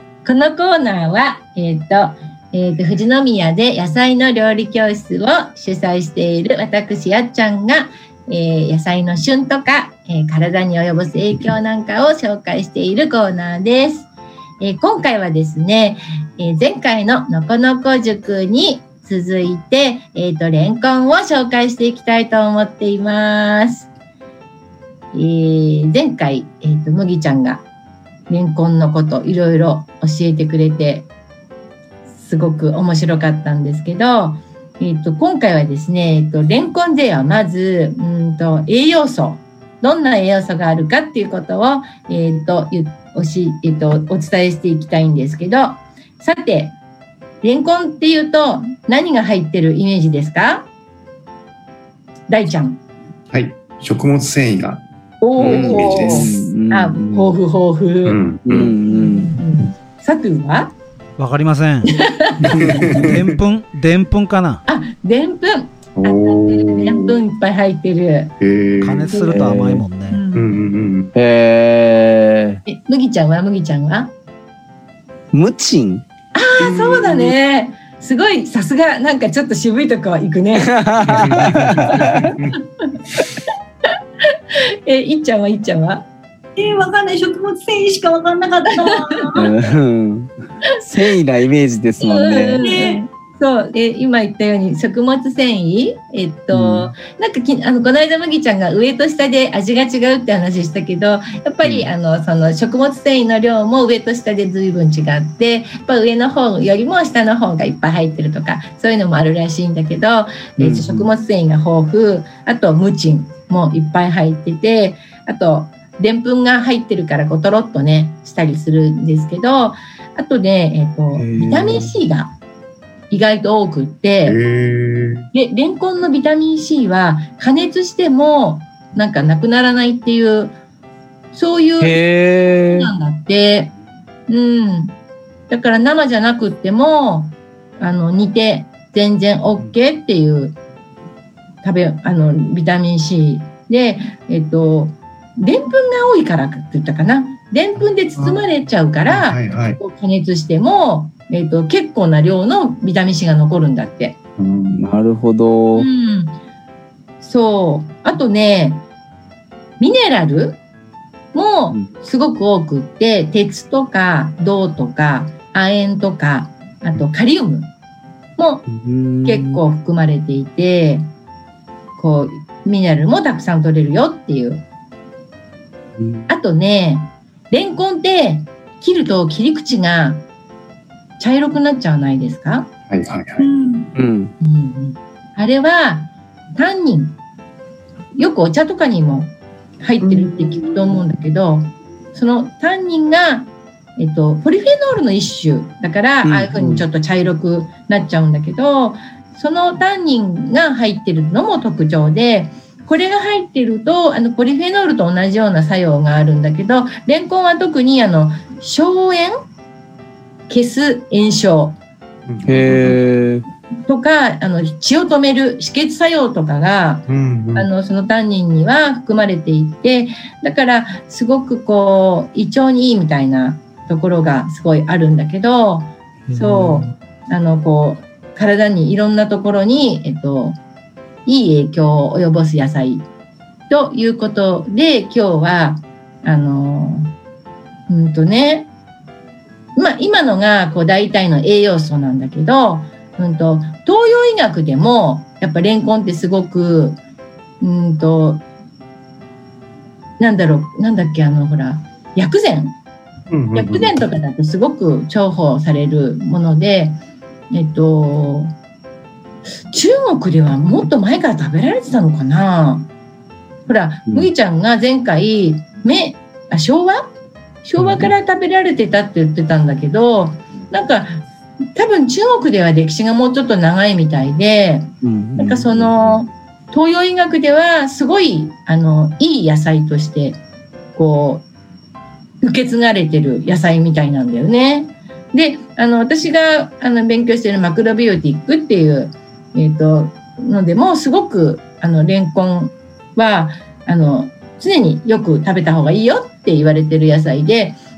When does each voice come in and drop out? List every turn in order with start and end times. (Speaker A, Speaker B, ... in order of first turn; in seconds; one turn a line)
Speaker A: 0.2-14.1
Speaker A: 14.6-23.9
Speaker A: 25.1-27.6
Speaker A: 28.3-31.1
Speaker A: 32.1-46.7
Speaker A: 47.4-50.7
Speaker A: 52.3-52.8
Speaker B: 53.3-54.8
Speaker A: 55.2-60.7
Speaker B: 55.4-56.3
Speaker C: 55.4-57.4
Speaker B: 58.0-58.7
Speaker C: 58.4-59.4
Speaker D: 61.2-61.9
Speaker A: 61.9-63.0
Speaker B: 62.5-63.2
Speaker D: 62.8-64.6
Speaker A: 64.7-68.3
Speaker B: 66.0-67.2
Speaker B: 68.4-69.2
Speaker D: 68.8-70.2
Speaker C: 69.1-69.8
Speaker A: 70.1-70.6
Speaker B: 70.3-71.1
Speaker C: 71.1-72.6
Speaker A: 72.7-74.1
Speaker C: 75.3-76.0
Speaker A: 76.3-81.2
Speaker C: 76.6-77.3
Speaker C: 80.6-82.3
Speaker B: 81.1-82.6
Speaker A: 81.9-82.3
Speaker A: 84.5-86.0
Speaker E: 86.6-89.4
Speaker A: 88.8-89.2
Speaker C: 89.3-90.3
Speaker C: 90.8-92.6
Speaker A: 92.0-122.3
Speaker E: 92.6-93.0
Speaker C: 96.5-96.9
Speaker C: 110.6-111.1
Speaker C: 121.1-121.9
Speaker A: 123.1-124.4
Speaker B: 124.2-125.3
Speaker A: 125.3-130.6
Speaker A: 131.3-132.0
Speaker C: 131.8-132.9
Speaker A: 132.7-133.7
Speaker A: 134.3-134.9
Speaker A: 135.5-140.6
Speaker A: 141.6-154.2
Speaker B: 148.2-148.4
Speaker B: 149.1-149.8
Speaker B: 154.4-154.9
Speaker C: 154.7-155.9
Speaker A: 155.7-156.4
Speaker A: 157.2-158.8
Speaker A: 159.8-160.6
Speaker A: 161.3-167.7
Speaker A: 168.4-168.6
Speaker C: 168.7-169.6
Speaker A: 169.2-171.1
Speaker A: 172.0-174.6
Speaker C: 176.0-176.3
Speaker A: 176.3-180.2
Speaker A: 181.2-182.7
Speaker B: 182.9-183.5
Speaker E: 183.4-183.9
Speaker C: 183.9-184.3
Speaker A: 184.4-187.2
Speaker A: 188.2-209.3
Speaker C: 196.2-196.8
Speaker A: 210.5-211.8
Speaker B: 212.3-213.0
Speaker C: 212.5-213.4
Speaker A: 213.9-230.6
Speaker B: 217.1-217.7
Speaker C: 226.3-226.9
Speaker A: 231.2-233.1
Speaker A: 233.7-237.1
Speaker A: 237.9-238.7
Speaker A: 239.8-247.0
Speaker A: 247.6-248.4
Speaker A: 250.2-252.8
Speaker B: 253.3-254.1
Speaker A: 253.5-257.0
Speaker A: 257.5-258.5
Speaker A: 259.7-262.9
Speaker A: 263.7-267.1
Speaker A: 267.6-271.2
Speaker C: 267.8-268.1
Speaker A: 271.7-280.4
Speaker C: 275.0-276.2
Speaker A: 280.9-281.4
Speaker A: 282.4-297.8